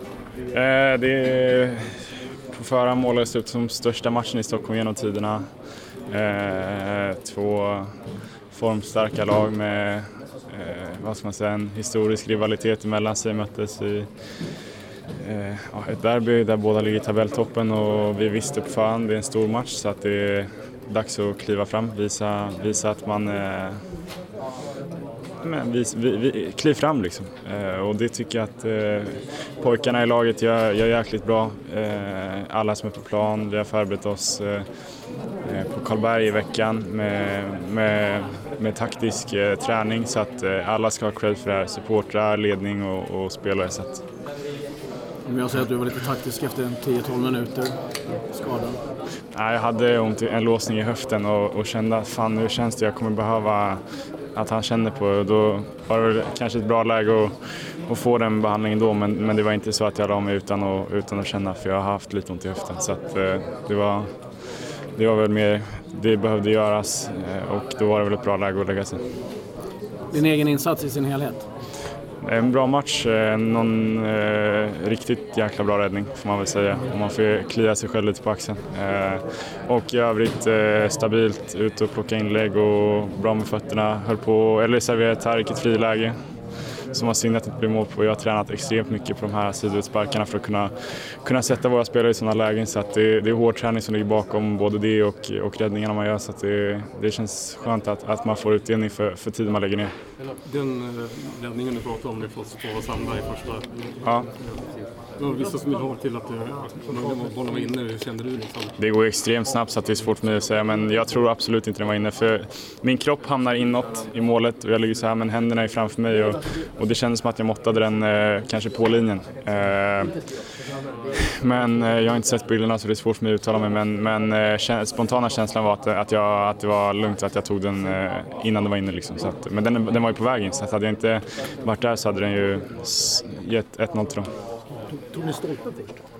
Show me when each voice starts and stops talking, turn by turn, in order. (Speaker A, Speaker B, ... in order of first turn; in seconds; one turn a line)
Speaker A: 0.5-1.9
Speaker A: 2.5-5.4
Speaker A: 6.1-7.9
Speaker A: 8.5-14.1
Speaker A: 15.2-23.8
Speaker A: 25.4-34.6
Speaker A: 35.5-44.0
Speaker B: 45.2-48.8
Speaker A: 49.3-53.8
Speaker A: 54.3-57.4
Speaker A: 57.9-64.1
Speaker A: 65.0-69.0
Speaker B: 70.1-71.4
Speaker A: 72.2-86.1
Speaker A: 86.9-99.9
Speaker C: 100.2-108.7
Speaker A: 108.8-120.2
Speaker A: 121.4-134.2
Speaker B: 135.1-135.9